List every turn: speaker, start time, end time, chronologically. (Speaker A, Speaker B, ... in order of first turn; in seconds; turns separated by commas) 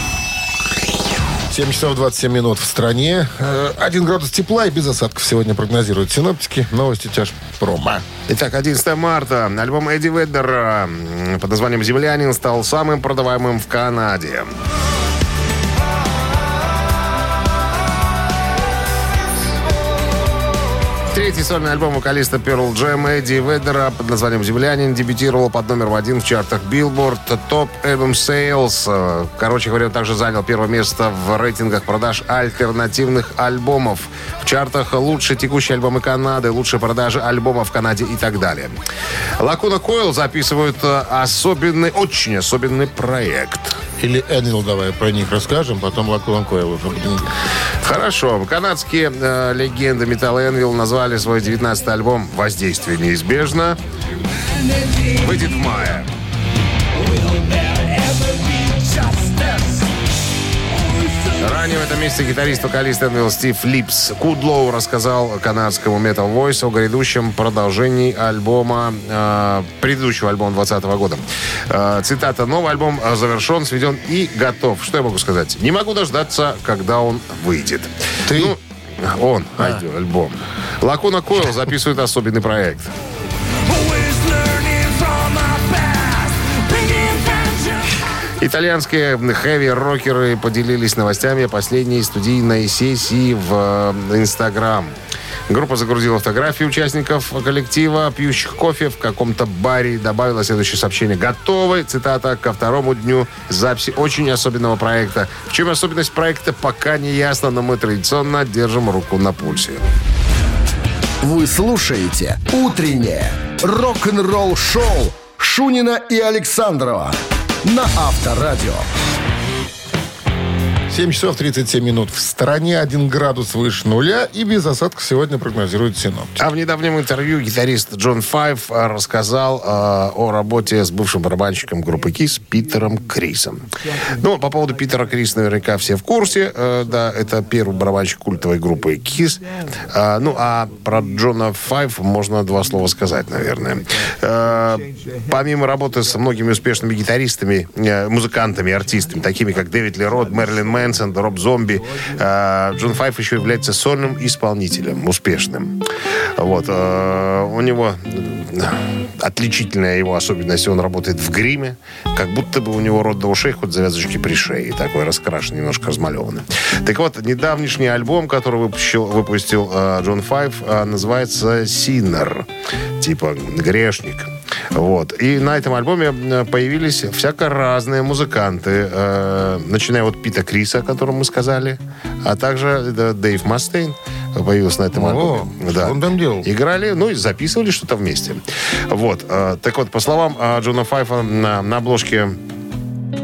Speaker A: 1.5-8.1, Speaker B: 8.3-14.5, Speaker B: 21.1-38.8, Speaker B: 39.4-43.8, Speaker A: 44.0-47.3, Speaker B: 47.8-53.8, Speaker B: 55.0-56.1, Speaker B: 61.4-82.9, Speaker A: 78.3-78.5, Speaker A: 79.6-79.8, Speaker B: 84.7-86.1, Speaker B: 88.4-94.9, Speaker B: 95.5-109.8, Speaker C: 111.2-118.9, Speaker A: 120.9-126.4, Speaker B: 126.4-155.8, Speaker B: 156.4-172.5, Speaker B: 173.0-192.4, Speaker A: 184.9-186.5